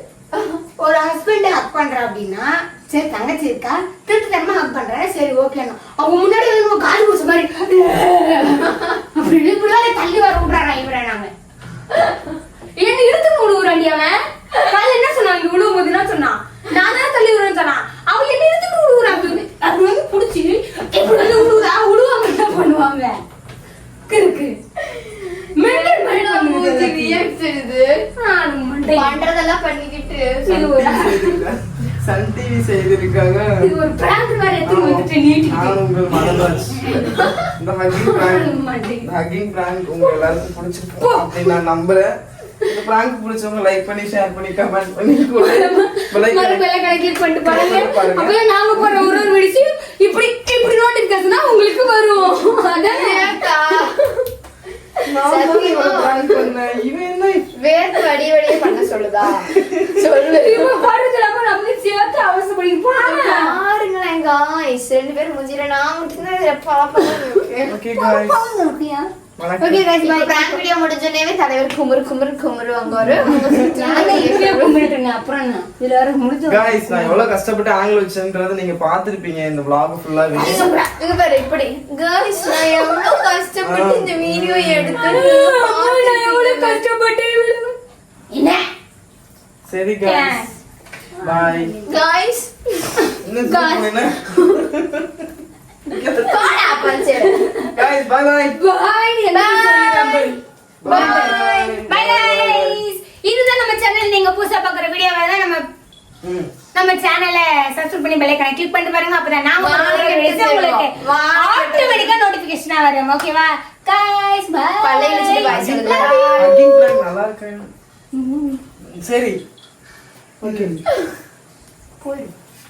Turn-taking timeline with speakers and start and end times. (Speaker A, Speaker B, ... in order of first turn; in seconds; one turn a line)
Speaker A: 0.3-0.6
Speaker B: 0.8-11.3
Speaker B: 12.8-23.2
Speaker B: 24.1-24.6
Speaker A: 24.9-28.1
Speaker B: 25.6-27.2
Speaker B: 28.2-29.2
Speaker A: 28.9-30.8
Speaker B: 30.4-31.4
Speaker C: 30.5-33.7
Speaker B: 33.6-35.8
Speaker C: 34.6-46.8
Speaker B: 36.8-39.1
Speaker B: 41.0-41.5
Speaker B: 45.4-53.4
Speaker C: 47.4-49.3
Speaker A: 52.8-54.0
Speaker A: 55.0-56.5
Speaker C: 55.0-57.5
Speaker A: 57.5-60.8
Speaker C: 59.3-60.0
Speaker B: 60.1-63.6
Speaker A: 62.9-67.8
Speaker C: 67.7-68.4
Speaker B: 67.9-70.6
Speaker C: 69.4-69.9
Speaker A: 69.6-74.8
Speaker C: 73.0-73.7
Speaker B: 73.7-77.2
Speaker C: 76.5-80.7
Speaker B: 80.3-80.9
Speaker A: 80.5-86.8
Speaker B: 82.4-83.1
Speaker C: 83.6-85.2
Speaker B: 84.9-87.8
Speaker B: 88.3-88.7
Speaker C: 89.7-90.5
Speaker B: 90.0-90.5
Speaker B: 91.2-92.0
Speaker C: 91.2-91.8
Speaker A: 91.9-93.9
Speaker C: 93.2-95.3
Speaker C: 95.9-96.6
Speaker A: 96.2-97.4
Speaker B: 97.1-97.7
Speaker C: 97.7-98.6
Speaker B: 98.5-105.7
Speaker A: 99.3-101.5
Speaker C: 100.8-102.8
Speaker C: 106.2-106.5
Speaker B: 106.7-117.0
Speaker A: 109.6-112.2
Speaker A: 114.8-116.6
Speaker C: 115.5-117.7
Speaker B: 118.1-118.6
Speaker C: 118.8-119.4
Speaker C: 120.4-120.8
Speaker B: 122.0-122.3